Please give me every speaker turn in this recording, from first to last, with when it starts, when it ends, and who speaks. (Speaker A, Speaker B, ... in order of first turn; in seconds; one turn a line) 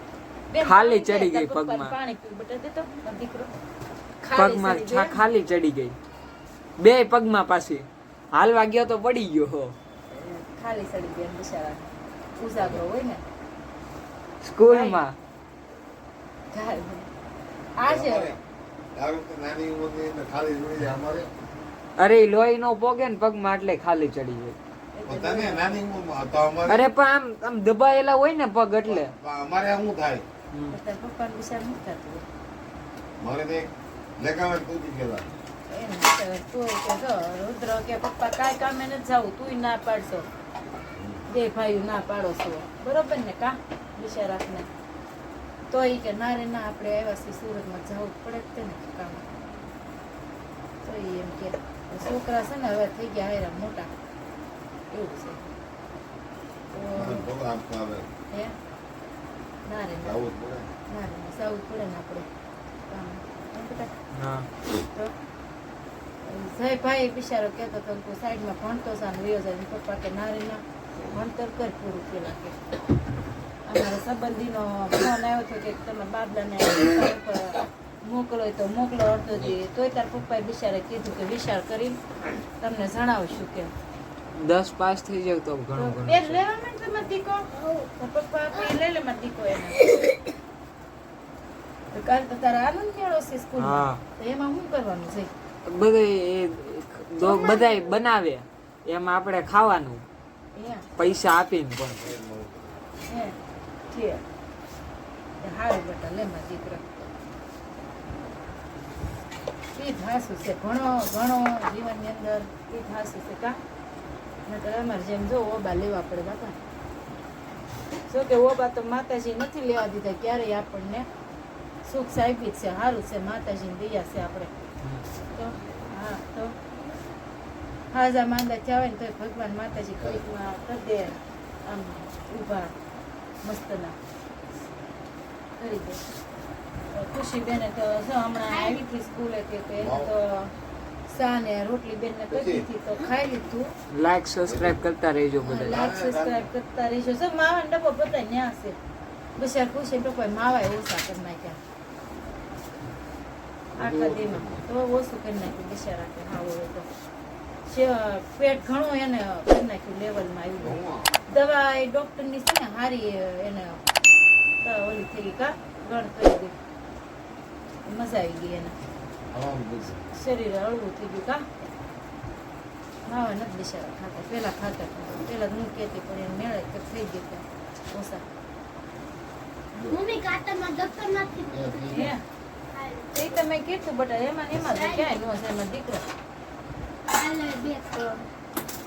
Speaker A: 0.5-3.5
Speaker B: 0.6-1.9
Speaker A: 4.2-5.2
Speaker B: 4.3-6.0
Speaker B: 6.8-9.7
Speaker A: 10.1-13.2
Speaker B: 14.4-15.1
Speaker A: 14.7-15.0
Speaker A: 16.5-17.1
Speaker A: 17.8-18.3
Speaker C: 17.8-18.4
Speaker C: 18.9-21.3
Speaker B: 22.0-24.6
Speaker A: 24.9-25.8
Speaker C: 25.1-26.9
Speaker B: 26.6-29.1
Speaker C: 28.8-30.2
Speaker A: 30.7-32.2
Speaker C: 33.2-35.3
Speaker A: 35.7-40.3
Speaker C: 41.0-41.2
Speaker A: 41.3-44.7
Speaker A: 45.7-49.2
Speaker A: 50.8-53.9
Speaker A: 54.9-55.5
Speaker A: 56.7-57.3
Speaker C: 56.9-58.1
Speaker A: 59.6-60.2
Speaker C: 60.0-60.7
Speaker A: 60.9-62.3
Speaker A: 62.9-63.9
Speaker B: 64.1-64.5
Speaker A: 66.2-72.6
Speaker A: 73.7-82.0
Speaker A: 82.6-83.7
Speaker B: 84.3-86.4
Speaker A: 85.7-89.8
Speaker D: 87.5-87.9
Speaker A: 91.9-95.3
Speaker B: 93.6-94.0
Speaker B: 95.7-100.0
Speaker D: 97.2-98.0
Speaker A: 100.5-100.9
Speaker B: 101.0-102.1
Speaker C: 101.9-102.8
Speaker A: 103.1-103.3
Speaker A: 103.9-104.2
Speaker A: 105.4-107.1
Speaker A: 109.7-113.6
Speaker A: 114.5-116.6
Speaker A: 118.1-121.1
Speaker A: 121.8-124.5
Speaker A: 125.3-126.5
Speaker A: 127.9-132.7
Speaker A: 133.4-133.9
Speaker A: 135.6-136.0
Speaker A: 136.9-140.5
Speaker D: 138.5-138.8
Speaker C: 139.8-140.1
Speaker A: 141.1-143.7
Speaker C: 142.3-142.7
Speaker B: 143.9-145.8
Speaker C: 144.4-144.8
Speaker A: 145.4-148.8
Speaker C: 145.7-146.5
Speaker A: 149.3-151.6
Speaker C: 153.7-154.6
Speaker A: 153.8-156.9
Speaker A: 157.7-163.8
Speaker C: 160.6-161.1
Speaker A: 164.6-166.5
Speaker A: 167.8-168.8
Speaker C: 169.3-170.0
Speaker A: 170.1-171.4
Speaker A: 173.1-178.2
Speaker C: 179.7-180.1
Speaker D: 179.9-182.1
Speaker C: 181.5-182.1
Speaker A: 181.9-182.2
Speaker D: 182.7-183.1
Speaker A: 183.1-186.0
Speaker D: 184.6-185.1
Speaker D: 187.1-188.2